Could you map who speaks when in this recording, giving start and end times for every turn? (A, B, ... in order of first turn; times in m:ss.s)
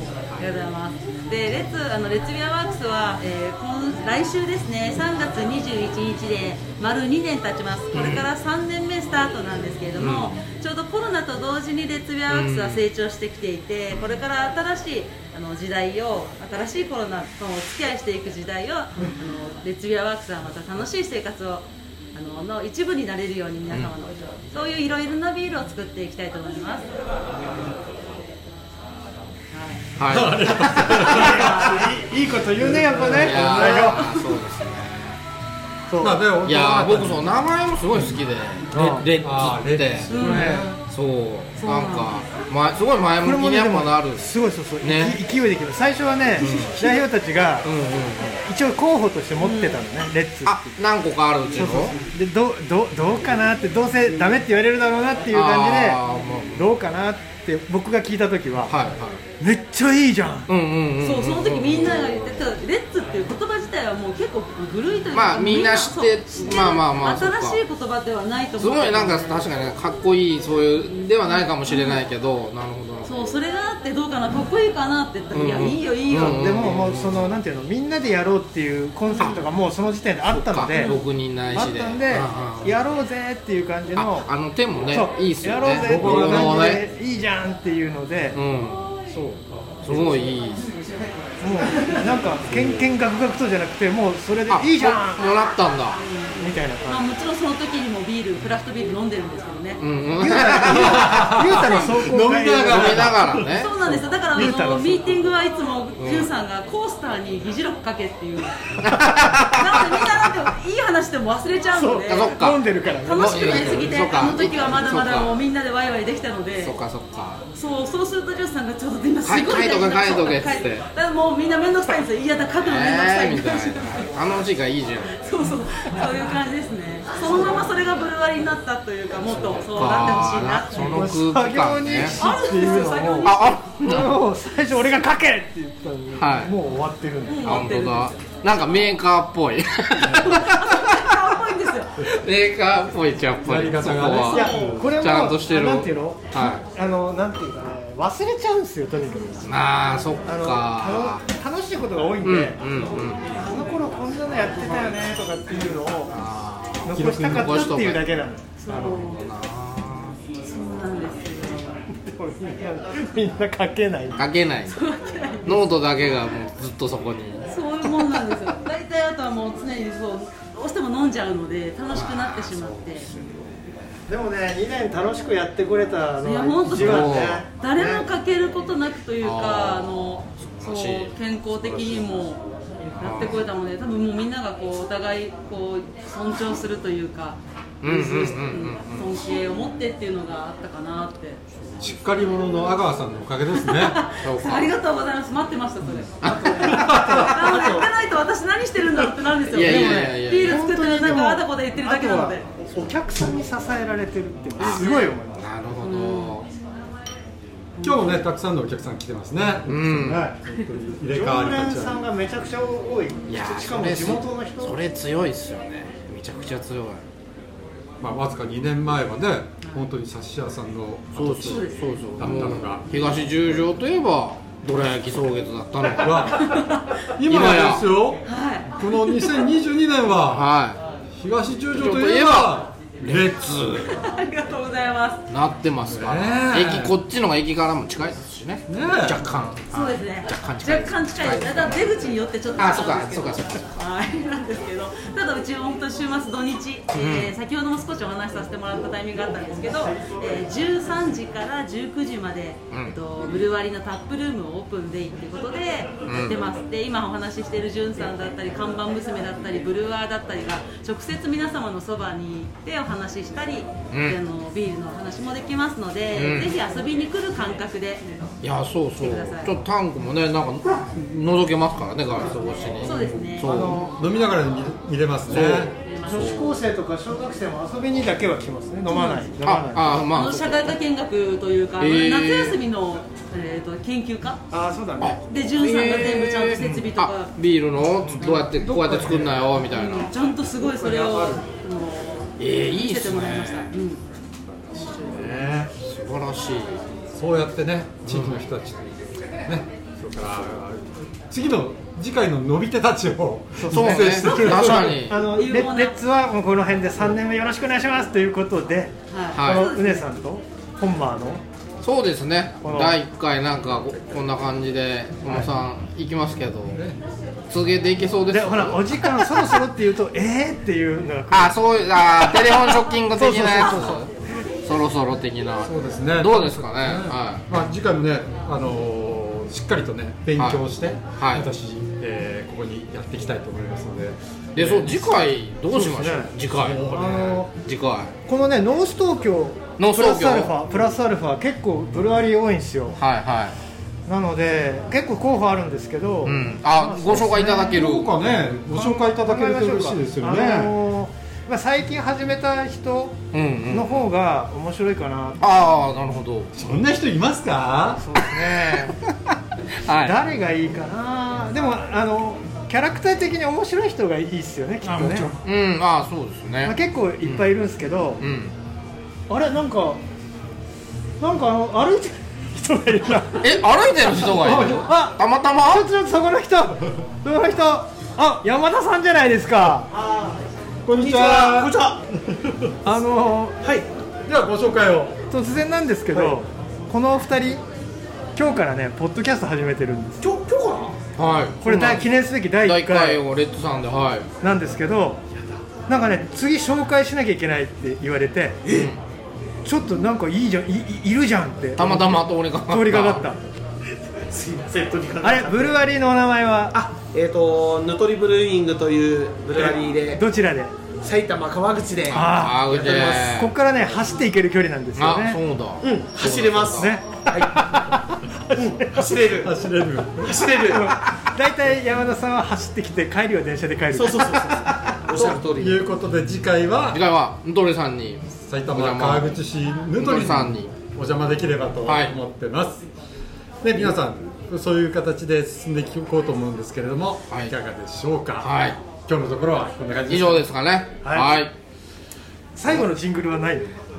0:00.4-0:26.9 A
0:07.9-0:08.3 B
0:10.0-0:10.4 B
0:12.3-0:12.8 B
0:29.5-0:29.8 A
0:30.0-0:31.4 B
0:30.1-0:31.7 C
0:30.9-0:34.1 D
0:31.2-0:31.8 A
0:32.6-0:33.5 C
0:33.1-0:35.2 B
0:33.6-0:34.3 A
0:35.9-0:36.2 D
0:36.0-0:37.4 C
0:36.4-0:44.3 B
0:38.7-0:39.0 D
0:38.7-0:40.8 C
0:40.1-0:40.7 A
0:40.2-0:40.6 D
0:41.6-0:42.2 A
0:43.2-0:47.7 D
0:44.8-0:45.2 B
0:46.4-0:47.0 B
0:47.6-0:48.4 B
0:48.4-0:50.6 D
0:49.4-0:49.8 A
0:50.5-0:52.0 B
0:51.6-0:56.0 D
0:55.3-0:56.7 B
0:56.5-0:58.8 D
0:58.7-0:59.2 B
0:59.4-1:00.5 D
1:00.5-1:02.3 B
1:01.0-1:09.5 A
1:05.1-1:07.6 B
1:08.6-1:13.3 B
1:11.3-1:12.0 A
1:13.0-1:16.6 A
1:15.3-1:17.4 B
1:16.2-1:21.0 D
1:20.3-1:22.9 B
1:20.8-1:21.0 A
1:21.5-1:24.3 D
1:24.0-1:26.8 B
1:24.9-1:28.4 D
1:25.8-1:26.7 C
1:28.3-1:28.9 B
1:29.1-1:30.2 D
1:29.8-1:30.7 B
1:31.4-1:35.2 D
1:34.5-1:36.0 B
1:36.0-1:39.8 A
1:36.4-1:37.1 D
1:39.8-1:41.9 B
1:40.2-1:43.2 D
1:40.7-1:43.5 C
1:42.6-1:43.7 B
1:43.4-1:52.4 A
1:44.2-1:45.4 D
1:46.0-1:46.3 B
1:48.8-1:50.3 B
1:51.7-1:54.0 D
1:52.1-1:55.4 B
1:53.0-1:56.8 A
1:56.6-1:57.4 B
1:57.5-2:04.2 A
1:59.2-2:00.9 B
2:02.6-2:05.3 B
2:05.1-2:11.0 A
2:09.2-2:12.2 B
2:10.7-2:17.8 D
2:12.1-2:13.6 A
2:13.2-2:14.2 B
2:16.2-2:16.5 B
2:17.3-2:18.1 A
2:17.4-2:21.4 B
2:20.1-2:21.9 A
2:22.0-2:26.6 B
2:23.4-2:24.9 C
2:24.3-2:29.5 D
2:29.5-2:31.2 B
2:30.3-2:32.6 D
2:32.2-2:33.4 B
2:33.3-2:36.1 D
2:36.1-2:38.0 B
2:36.8-2:39.0 D
2:37.0-2:37.4 C
2:38.6-2:39.3 A
2:38.7-2:40.2 B
2:40.5-2:41.8 A
2:42.1-2:44.2 D
2:44.2-2:44.8 B
2:44.7-2:45.6 A
2:45.4-2:48.2 B
2:47.5-2:53.1 A
2:51.9-2:53.6 B
2:54.1-2:58.0 D
2:56.2-3:11.4 A
2:56.7-2:57.4 B
2:59.2-3:02.0 B
3:03.0-3:03.4 B
3:07.8-3:09.4 B
3:11.8-3:14.0 C
3:13.6-3:22.5 A
3:14.2-3:14.7 B
3:16.2-3:17.3 B
3:16.2-3:17.9 D
3:19.5-3:20.7 B
3:19.6-3:25.4 D
3:24.6-3:26.5 B
3:24.6-3:25.1 A
3:25.8-3:26.4 A
3:27.8-3:28.2 A
3:27.8-3:32.0 C
3:29.7-3:30.3 B
3:31.1-3:34.8 D
3:33.3-3:37.0 B
3:38.0-3:43.1 C
3:39.6-3:39.9 A
3:41.2-3:46.5 B
3:41.4-3:42.6 A
3:46.0-3:48.2 C
3:46.4-3:47.1 A
3:47.3-3:47.9 B
3:48.2-3:49.4 A
3:48.8-3:50.5 C
3:50.2-3:50.8 B
3:51.1-3:53.6 C
3:51.7-3:54.0 B
3:53.8-3:55.2 A
3:55.3-4:01.8 B
3:55.9-3:57.0 C
3:58.7-3:59.2 C
3:59.7-4:28.0 A
4:02.6-4:03.6 B
4:06.9-4:07.3 B
4:12.7-4:13.0 B
4:16.0-4:16.4 B
4:23.9-4:24.2 B
4:26.1-4:26.5 B
4:28.4-4:33.8 B
4:29.0-4:29.5 A
4:32.8-4:33.7 A
4:33.4-4:33.9 D
4:33.9-4:35.7 C
4:35.3-4:36.6 B
4:35.8-4:36.5 A
4:36.0-4:40.1 D
4:38.9-4:39.2 A
4:39.4-4:40.7 B
4:40.1-4:44.4 A
4:41.8-4:42.6 B
4:44.5-4:45.2 D
4:45.0-4:50.1 B
4:45.2-4:47.3 A
4:46.6-4:46.9 D
4:48.0-4:49.4 D
4:48.2-4:48.5 A
4:49.7-4:54.0 A
4:50.6-4:51.5 D
4:52.4-4:53.7 B
4:54.5-4:55.7 C
4:54.8-4:55.1 A
4:55.8-4:56.8 B
4:57.1-5:04.7 C
4:58.1-4:58.4 B
5:03.6-5:11.4 D
5:03.7-5:05.2 B
5:04.3-5:06.0 A
5:09.1-5:10.0 A
5:09.4-5:09.7 B
5:11.8-5:16.8 B
5:12.6-5:13.0 D
5:16.7-5:17.0 C
5:17.5-5:19.6 B
5:18.3-5:24.0 D
5:21.3-5:24.1 B
5:24.6-5:27.4 B
5:25.6-5:35.1 C
5:30.4-5:30.6 B
5:31.2-5:31.4 B
5:34.6-5:38.1 B
5:35.7-5:36.3 D
5:36.6-5:37.1 C
5:36.9-5:37.5 D
5:38.2-5:43.0 D
5:39.8-5:40.5 B
5:43.0-5:43.6 B
5:44.1-5:47.8 D
5:46.3-5:48.2 B
5:47.1-5:50.8 C
5:48.7-5:53.2 D
5:53.3-5:54.1 B
5:53.7-5:55.7 D
5:55.4-5:56.5 B
5:56.6-5:58.1 C
5:58.0-5:59.0 D
5:59.0-5:59.3 B
5:59.8-6:00.2 B
5:59.9-6:05.4 D
6:05.4-6:07.5 B
6:06.6-6:08.2 D
6:08.2-6:08.5 B
6:09.3-6:10.0 D
6:11.2-6:13.6 D
6:13.4-6:15.9 B
6:14.3-6:14.9 C
6:14.4-6:19.9 D
6:19.9-6:20.4 E
6:20.9-6:21.8 C
6:20.9-6:22.0 E
6:22.8-6:23.6 D
6:23.6-6:23.9 E
6:24.3-6:25.2 C
6:25.3-6:27.6 D
6:28.4-6:30.2 D
6:30.2-6:31.0 E
6:31.2-6:34.3 B
6:31.6-6:33.2 D
6:34.4-6:35.2 D
6:35.9-6:38.6 D
6:38.7-6:38.9 E
6:38.7-6:39.0 B
6:39.6-6:43.4 D
6:41.8-6:43.2 B
6:44.3-6:45.8 E
6:45.2-6:46.8 D
6:46.7-6:50.2 E
6:49.6-6:50.8 D
6:51.0-6:54.0 E
6:52.1-6:52.7 D
6:52.1-6:53.5 B
6:53.3-6:55.4 D
6:55.0-6:57.0 B
6:55.8-6:57.6 E
6:56.7-6:59.1 D
6:58.6-6:59.5 E
6:59.3-7:00.4 C
7:00.2-7:01.0 E
7:00.6-7:05.2 D
7:03.9-7:05.8 E
7:05.1-7:07.0 C
7:06.9-7:09.4 B
7:08.5-7:12.8 C
7:10.0-7:10.7 B
7:11.8-7:12.1 B
7:13.6-7:20.5 C
7:18.4-7:18.8 B
7:20.1-7:21.5 B
7:21.0-7:21.4 D
7:22.6-7:23.8 D